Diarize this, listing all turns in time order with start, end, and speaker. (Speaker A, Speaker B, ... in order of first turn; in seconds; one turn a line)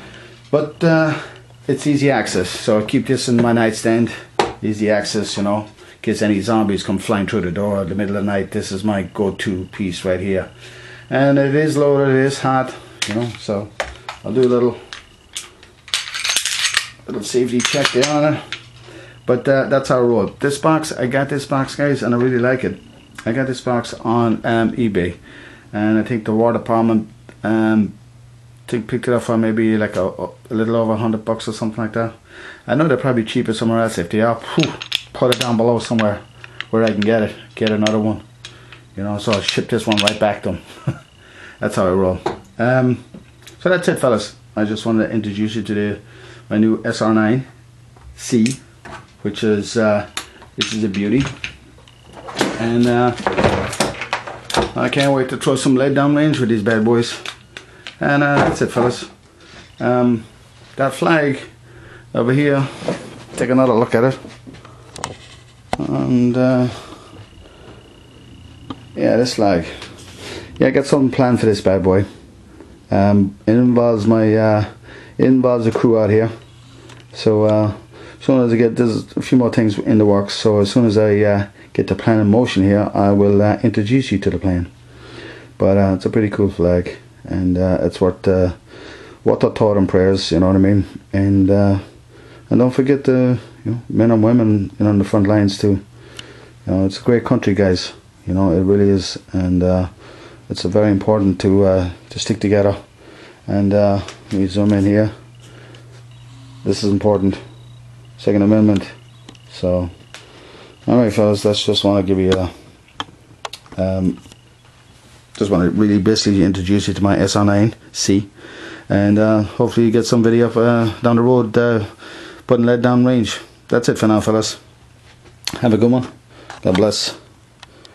Speaker A: 0.5-10.5
Speaker A: 11.1-13.7
Speaker A: 14.2-14.8
Speaker A: 17.1-18.4
Speaker A: 19.2-25.2
Speaker A: 25.7-27.9
Speaker A: 28.7-32.1
Speaker A: 32.6-38.2
Speaker A: 38.9-40.6
Speaker A: 41.6-43.0
Speaker A: 43.6-47.5
Speaker A: 48.1-48.6
Speaker A: 49.2-51.3
Speaker A: 52.5-53.4
Speaker A: 54.7-57.3
Speaker A: 58.0-59.1
Speaker A: 59.8-61.5
Speaker A: 62.1-64.2
Speaker A: 65.8-67.0
Speaker A: 68.9-69.8
Speaker A: 70.6-72.0
Speaker A: 72.9-76.3
Speaker A: 77.1-84.7
Speaker A: 85.6-88.6
Speaker A: 89.2-91.8
Speaker A: 92.5-95.8
Speaker A: 96.7-99.9
Speaker A: 100.5-102.8
Speaker A: 103.5-105.1
Speaker A: 106.6-107.4
Speaker A: 108.2-108.9
Speaker A: 109.5-109.9
Speaker A: 110.8-112.5
Speaker A: 113.8-114.2
Speaker A: 115.3-118.3
Speaker A: 118.9-121.9
Speaker A: 122.5-124.6
Speaker A: 125.6-126.1
Speaker A: 126.6-127.2